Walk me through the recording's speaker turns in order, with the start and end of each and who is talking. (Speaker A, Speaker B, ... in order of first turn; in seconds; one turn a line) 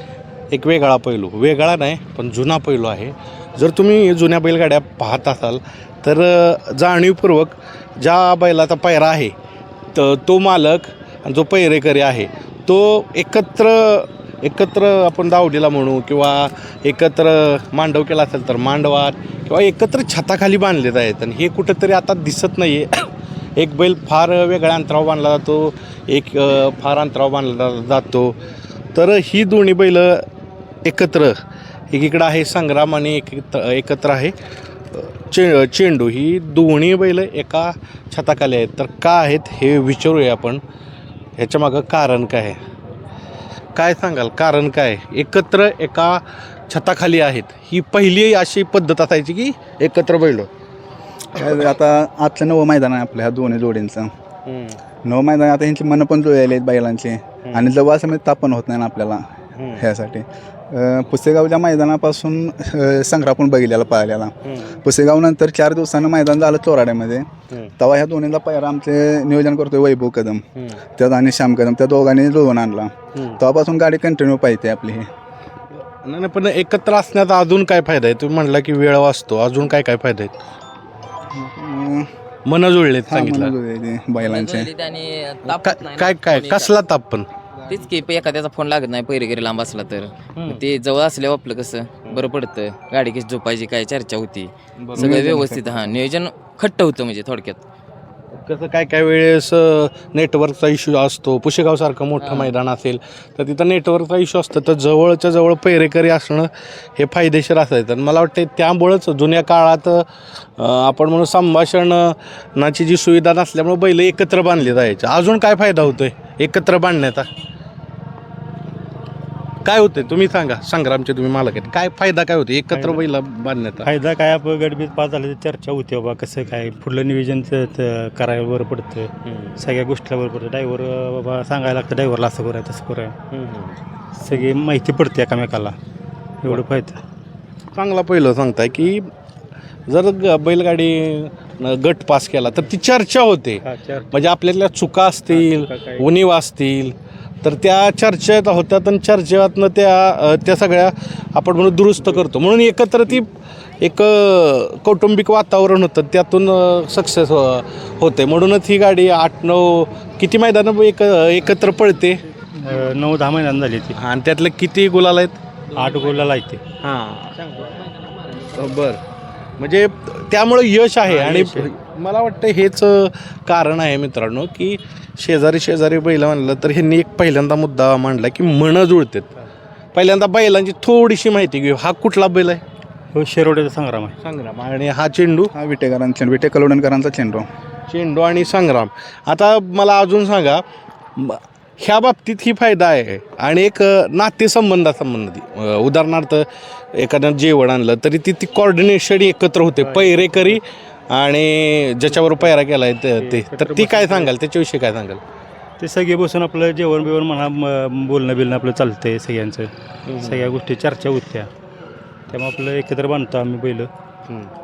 Speaker A: 0.5-9.3
Speaker A: 9.9-28.4
Speaker A: 28.9-30.2
Speaker A: 30.8-31.4
Speaker A: 31.9-34.4
Speaker A: 34.9-40.6
Speaker A: 41.4-42.6
Speaker A: 43.7-50.5
Speaker B: 51.3-54.1
Speaker A: 54.4-54.8
Speaker B: 55.0-59.2
Speaker A: 57.4-57.7
Speaker A: 59.5-59.9
Speaker B: 59.8-67.2
Speaker A: 64.4-64.8
Speaker B: 67.8-70.4
Speaker A: 70.5-70.8
Speaker B: 71.0-75.1
Speaker A: 73.1-73.4
Speaker A: 75.7-80.3
Speaker B: 81.3-82.1
Speaker A: 82.4-83.5
Speaker B: 83.1-84.7
Speaker C: 84.2-86.7
Speaker A: 85.4-87.3
Speaker C: 87.7-97.6
Speaker A: 90.3-90.6
Speaker A: 94.8-95.3
Speaker B: 94.9-96.0
Speaker A: 98.3-110.0
Speaker C: 102.2-102.5
Speaker A: 110.6-117.3
Speaker A: 119.6-123.9
Speaker D: 123.8-133.1
Speaker A: 129.2-129.6
Speaker A: 133.3-133.8
Speaker D: 134.3-135.8
Speaker D: 136.4-137.0
Speaker A: 137.7-139.1
Speaker A: 139.9-153.3
Speaker D: 143.7-144.1
Speaker A: 153.8-162.2
Speaker D: 162.6-163.9
Speaker A: 163.9-165.4
Speaker D: 165.8-166.6
Speaker A: 166.8-167.5
Speaker A: 168.5-169.0
Speaker A: 169.6-179.3
Speaker D: 171.2-171.5
Speaker A: 179.9-182.6
Speaker D: 183.1-184.1
Speaker A: 184.2-185.5
Speaker B: 185.6-187.5
Speaker A: 187.9-190.6
Speaker A: 191.2-205.2
Speaker D: 199.9-200.3
Speaker D: 203.3-204.3
Speaker D: 205.8-209.7
Speaker A: 210.0-210.6
Speaker D: 210.2-211.5
Speaker D: 212.3-213.9